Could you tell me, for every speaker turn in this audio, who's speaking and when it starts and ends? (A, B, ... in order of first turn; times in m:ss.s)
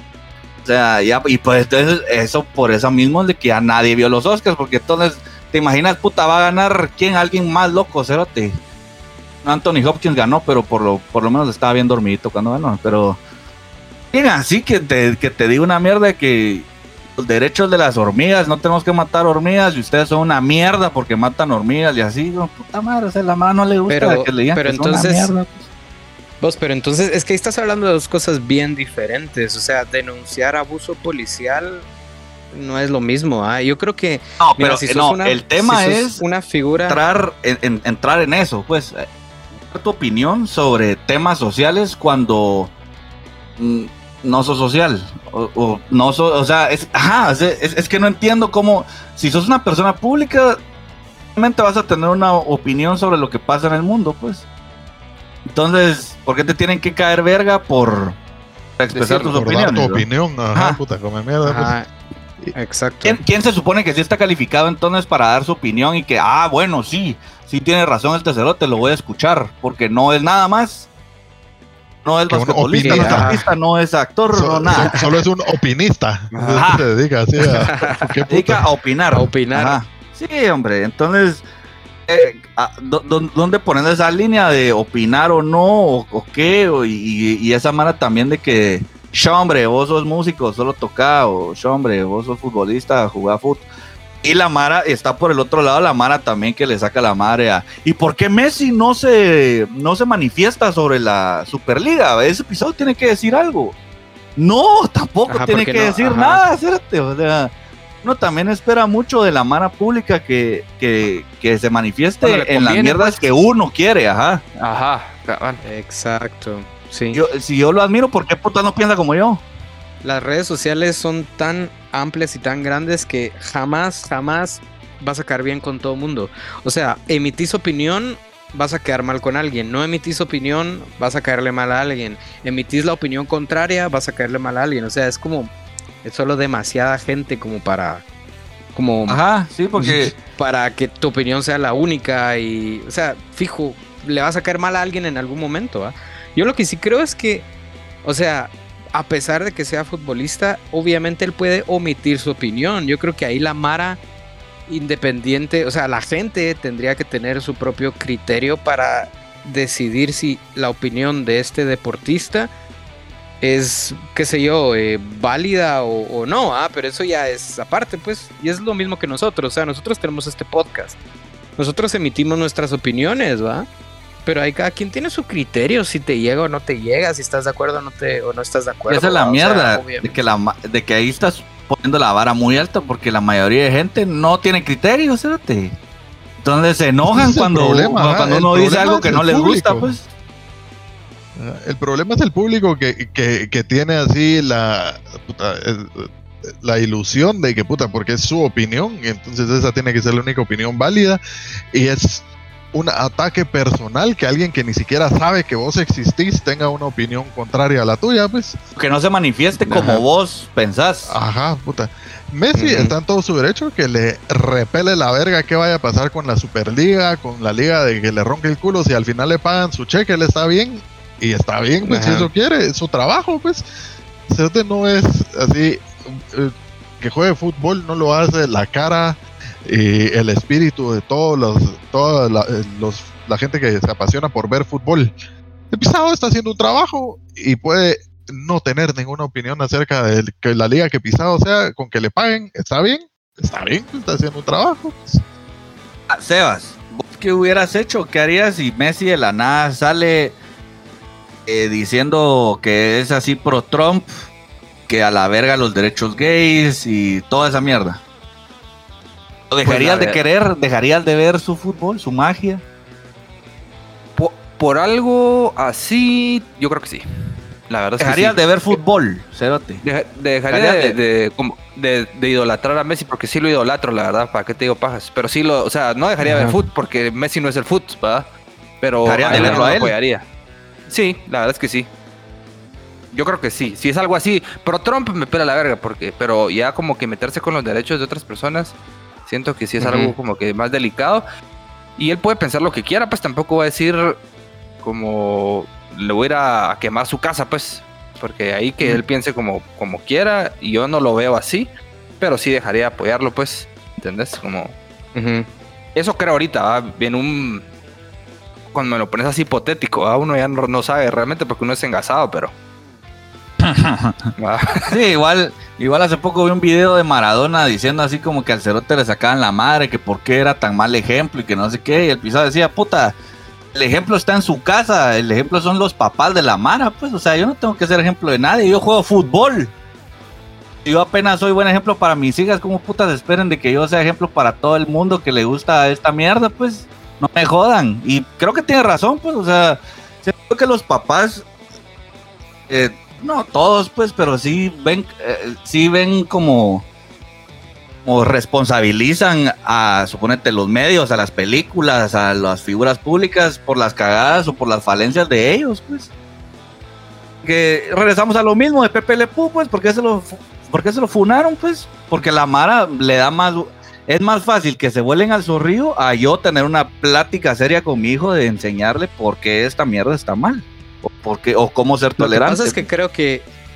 0:00.6-0:08.6 A
0:09.4-0:13.2 A
0:14.1-0:25.7 A
0:23.9-0:25.3 B
0:26.4-0:31.8 B
0:32.5-0:37.0 B
0:34.4-0:36.2 A
0:36.8-0:39.0 A
0:39.7-0:42.7 A
0:43.6-0:50.6 A
0:51.4-0:54.4 A
0:55.5-0:58.2 A
0:58.8-1:00.8 A
0:58.9-0:59.3 C
0:59.3-1:01.8 D
1:01.4-1:01.9 B
1:02.5-1:03.2 B
1:03.0-1:10.9 A
1:12.0-1:15.0 A
1:12.3-1:13.3 D
1:12.8-1:13.4 B
1:14.3-1:18.6 D
1:16.3-1:16.6 C
1:16.5-1:16.8 A
1:17.4-1:18.0 B
1:18.3-1:21.4 A
1:19.1-1:19.8 B
1:22.1-1:33.6 A
1:34.2-1:43.7 A
1:44.4-1:47.5 A
1:45.3-1:46.5 B
1:48.0-1:54.4 A
1:52.2-1:53.2 B
1:54.6-1:55.6 C
1:55.6-1:57.2 B
1:57.1-1:59.4 A
2:00.0-2:15.5 B
2:16.0-2:18.0 B
2:18.7-2:19.2 B
2:19.1-2:20.1 A
2:20.2-2:27.5 B
2:28.0-2:34.0 B
2:34.7-2:42.5 B
2:43.4-2:51.0 B
2:51.6-2:53.7 B
2:54.2-3:00.1 B
2:58.9-3:05.8 A
3:06.4-3:10.0 A
3:07.0-3:10.0 D
3:11.3-3:21.2 D
3:21.7-3:28.6 D
3:28.8-3:31.2 A
3:29.7-3:30.0 B
3:31.1-3:43.6 D
3:32.6-3:32.9 B
3:41.8-3:42.3 B
3:44.3-3:55.1 D
3:55.7-4:05.2 D
4:06.1-4:10.4 A
4:11.4-4:14.1 A
4:14.9-4:18.0 A
4:19.5-4:22.6 A
4:19.6-4:20.2 C
4:24.2-4:27.0 C
4:27.7-4:28.8 C
4:28.0-4:29.8 A
4:29.8-4:38.3 C
4:30.5-4:30.9 A
4:36.2-4:36.6 B
4:38.8-4:40.2 C
4:39.0-4:39.9 A
4:40.9-4:41.9 C
4:43.1-4:48.8 C
4:49.3-4:51.2 C
4:49.8-4:50.1 B
4:52.0-4:54.2 C
4:54.8-5:04.7 C
5:05.1-5:05.5 B
5:05.9-5:07.6 C
5:08.7-5:12.5 C
5:13.6-5:14.2 A
5:14.4-5:14.9 C
5:14.9-5:23.1 A
5:23.7-5:29.7 A
5:30.8-5:41.4 A
5:42.7-5:46.8 A
5:48.0-5:56.1 A
5:57.4-6:12.8 A
6:12.2-6:13.5 B